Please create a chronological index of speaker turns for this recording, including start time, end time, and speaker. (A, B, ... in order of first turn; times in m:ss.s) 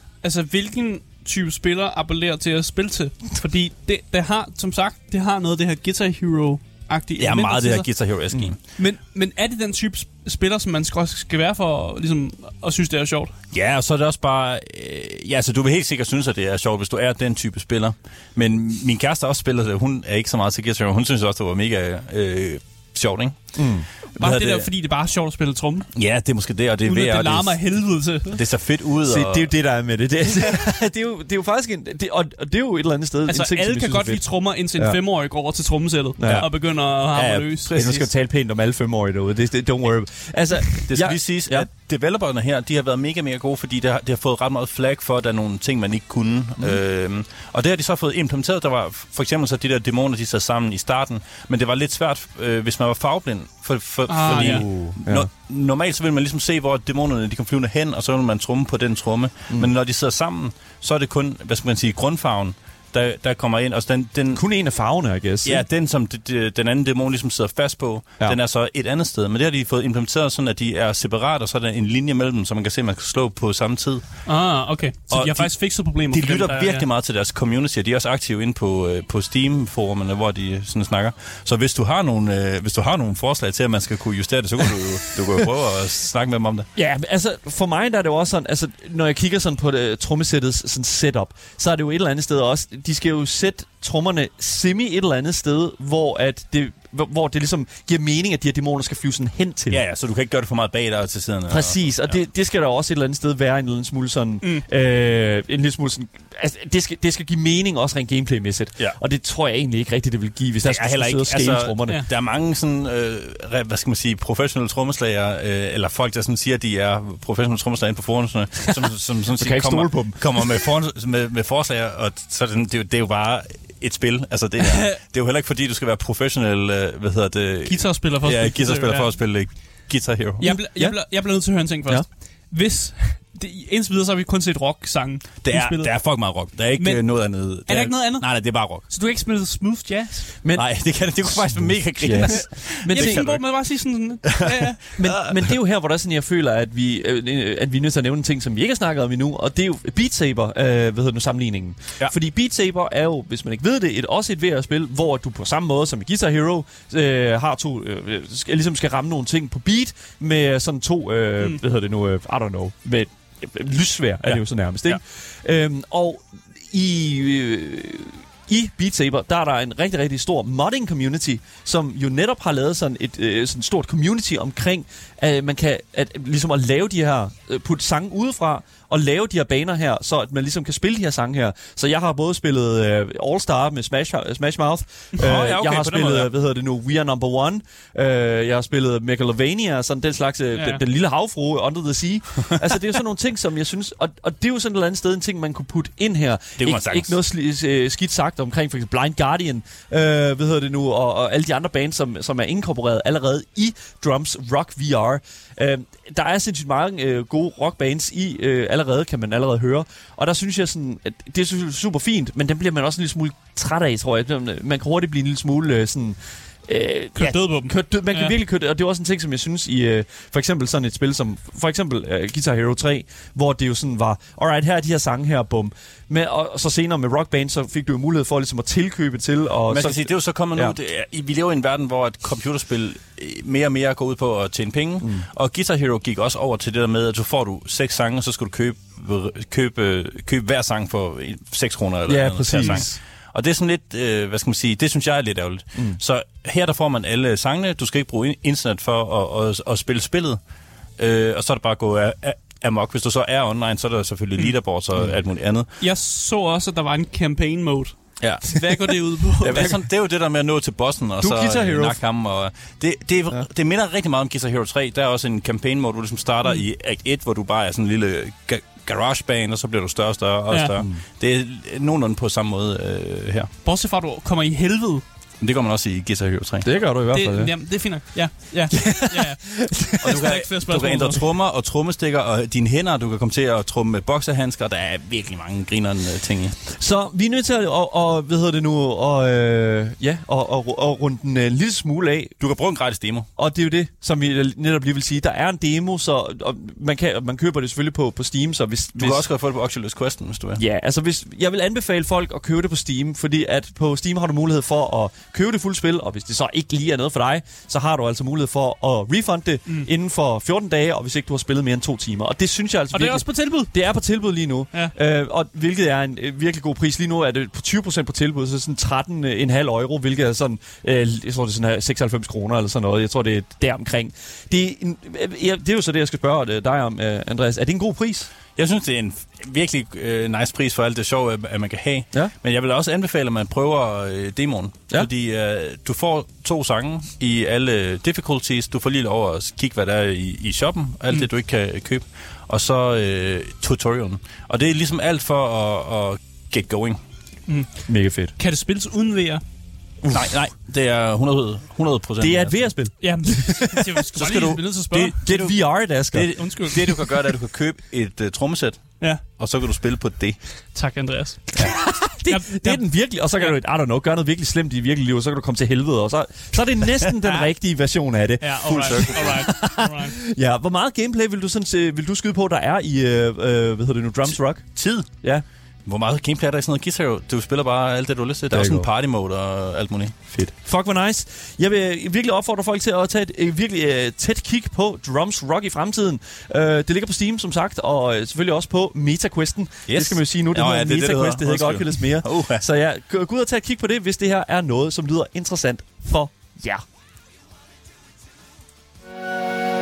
0:00.2-0:08.0 A
0:07.2-0:08.6 B
0:08.7-0:13.4 A
0:13.5-0:23.6 B
0:23.6-0:23.9 C
0:24.2-0:25.9 A
0:24.2-0:24.7 B
0:26.0-0:29.5 B
0:26.9-0:28.4 A
0:29.0-0:34.2 C
0:33.3-0:37.7 A
0:36.2-0:36.5 C
0:36.3-0:38.1 B
0:37.7-0:41.7 C
0:40.8-1:04.4 B
0:54.1-0:54.6 A
0:54.3-0:55.3 C
1:04.3-1:05.6 C
1:05.4-1:14.3 B
1:14.2-1:16.9 A
1:15.1-1:26.7 B
1:26.8-1:39.8 C
1:39.7-1:42.1 B
1:41.5-1:52.0 C
1:50.6-2:10.5 B
1:59.4-2:00.7 C
2:04.6-2:05.0 A
2:07.6-2:09.2 A
2:10.4-2:16.2 A
2:10.4-2:11.2 C
2:15.4-2:18.8 B
2:16.8-2:20.3 A
2:20.4-2:23.3 C
2:20.5-2:25.5 B
2:22.2-2:24.9 A
2:24.9-3:50.8 C
2:44.3-2:45.0 B
3:05.1-3:06.3 A
3:05.2-3:06.2 B
3:10.6-3:10.8 A
3:16.6-3:17.2 B
3:37.2-3:38.4 A
3:49.7-4:10.4 B
3:55.0-3:55.3 C
4:02.1-4:03.0 C
4:11.0-4:15.7 B
4:15.8-4:19.8 A
4:18.2-4:18.6 B
4:19.4-4:33.5 B
4:21.2-4:22.0 C
4:30.5-4:30.8 A
4:33.6-4:35.0 A
4:35.4-4:36.7 B
4:36.6-4:37.5 C
4:37.1-4:41.2 A
4:38.7-4:40.2 C
4:40.0-4:46.6 B
4:46.7-4:52.4 C
4:52.4-4:53.3 B
4:53.4-4:59.2 C
4:59.0-5:00.6 B
5:00.6-5:28.3 C
5:12.9-5:13.7 A
5:28.6-5:47.0 B
5:47.9-5:48.3 C
5:48.4-5:49.4 A
5:50.1-5:52.7 B
5:52.2-5:54.0 C
5:53.0-5:55.5 A
5:54.2-5:55.5 B
5:54.9-5:57.0 C
5:56.1-6:00.4 B
5:56.3-5:56.8 A
6:00.8-6:02.8 A
6:01.6-6:15.4 C
6:08.4-6:10.2 A
6:08.7-6:09.5 B
6:14.3-6:15.1 B
6:15.9-6:20.4 B
6:18.5-6:18.9 C
6:20.3-6:36.8 C
6:29.9-6:32.7 B